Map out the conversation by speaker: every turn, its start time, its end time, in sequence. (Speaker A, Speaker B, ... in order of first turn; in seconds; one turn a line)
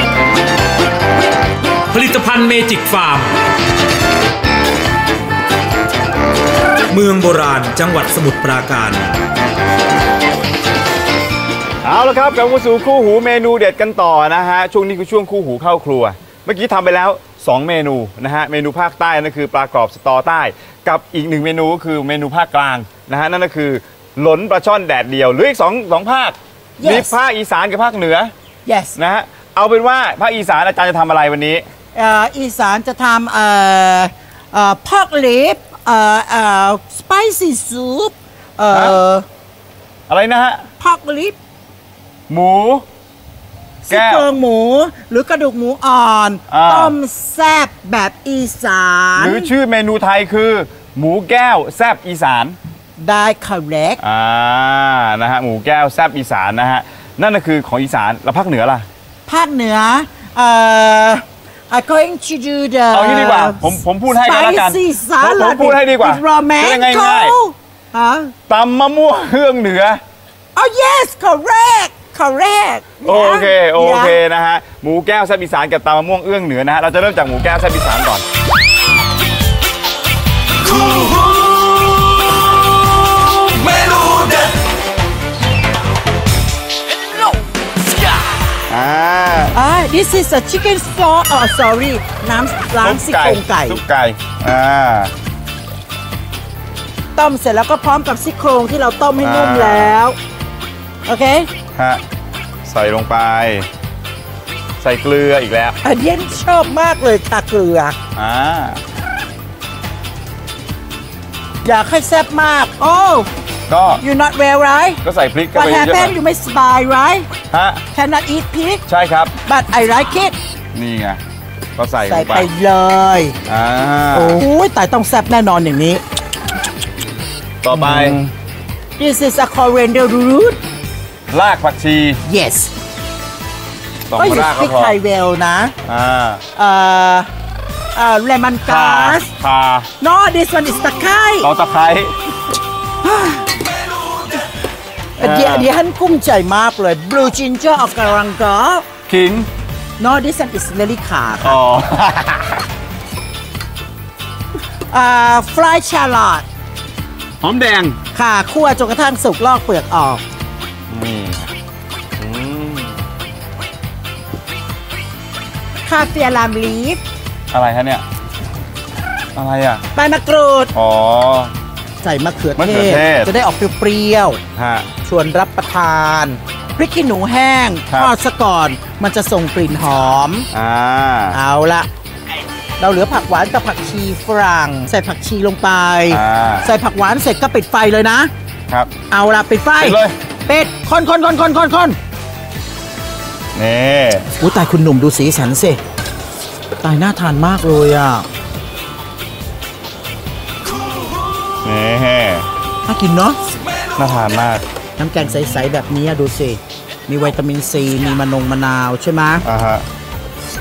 Speaker A: 1.9-3.3
Speaker A: 6.9-9.2
Speaker B: 11.8-28.3
Speaker C: 26.8-27.2
Speaker C: 28.7-29.0
Speaker B: 29.0-31.6
Speaker C: 31.9-39.2
Speaker B: 38.7-39.0
Speaker B: 40.1-40.6
Speaker C: 40.8-41.4
Speaker B: 42.3-42.8
Speaker C: 43.9-49.5
Speaker B: 43.9-44.3
Speaker B: 46.5-46.9
Speaker B: 49.2-52.6
Speaker C: 53.0-54.0
Speaker B: 54.0-58.9
Speaker C: 59.3-68.3
Speaker B: 62.9-67.3
Speaker B: 68.5-70.0
Speaker C: 70.5-74.2
Speaker B: 73.0-78.2
Speaker B: 88.7-89.6
Speaker C: 89.5-93.8
Speaker B: 92.8-95.1
Speaker C: 97.2-100.2
Speaker B: 99.2-100.0
Speaker C: 101.0-101.5
Speaker B: 101.8-102.0
Speaker B: 102.7-103.7
Speaker B: 104.8-105.8
Speaker C: 105.8-108.0
Speaker B: 108.2-108.8
Speaker C: 111.6-113.3
Speaker B: 113.7-114.0
Speaker C: 114.0-115.0
Speaker B: 115.0-116.2
Speaker C: 115.5-117.3
Speaker B: 117.5-117.8
Speaker C: 117.9-118.8
Speaker B: 118.9-119.3
Speaker C: 119.5-120.4
Speaker B: 120.7-121.2
Speaker B: 121.8-122.5
Speaker C: 122.0-123.4
Speaker B: 123.5-124.4
Speaker C: 124.1-126.0
Speaker B: 127.6-128.2
Speaker C: 127.7-128.3
Speaker C: 129.0-130.6
Speaker B: 131.3-132.2
Speaker C: 132.2-132.7
Speaker B: 134.1-135.0
Speaker C: 134.2-135.8
Speaker B: 135.8-136.4
Speaker C: 136.6-137.3
Speaker C: 137.9-139.3
Speaker B: 138.6-139.9
Speaker C: 140.0-141.5
Speaker B: 141.4-142.1
Speaker C: 143.0-143.5
Speaker C: 145.2-148.8
Speaker B: 145.2-145.7
Speaker B: 149.1-149.5
Speaker C: 150.0-151.6
Speaker B: 151.4-152.6
Speaker C: 154.9-156.5
Speaker B: 157.4-158.0
Speaker C: 158.1-160.2
Speaker B: 160.9-161.5
Speaker B: 162.2-163.0
Speaker C: 165.8-167.0
Speaker B: 167.5-168.0
Speaker B: 169.3-169.8
Speaker C: 169.9-170.7
Speaker B: 170.7-171.5
Speaker C: 172.0-174.4
Speaker B: 172.6-173.3
Speaker B: 174.6-174.9
Speaker C: 175.0-180.5
Speaker B: 180.5-181.4
Speaker C: 181.3-181.9
Speaker C: 182.8-188.3
Speaker B: 186.1-186.7
Speaker C: 189.1-192.0
Speaker B: 189.8-190.2
Speaker B: 193.6-194.3
Speaker C: 194.4-195.8
Speaker C: 196.8-198.3
Speaker B: 201.6-202.5
Speaker C: 202.9-203.4
Speaker B: 204.0-204.6
Speaker C: 205.0-209.4
Speaker B: 209.4-209.9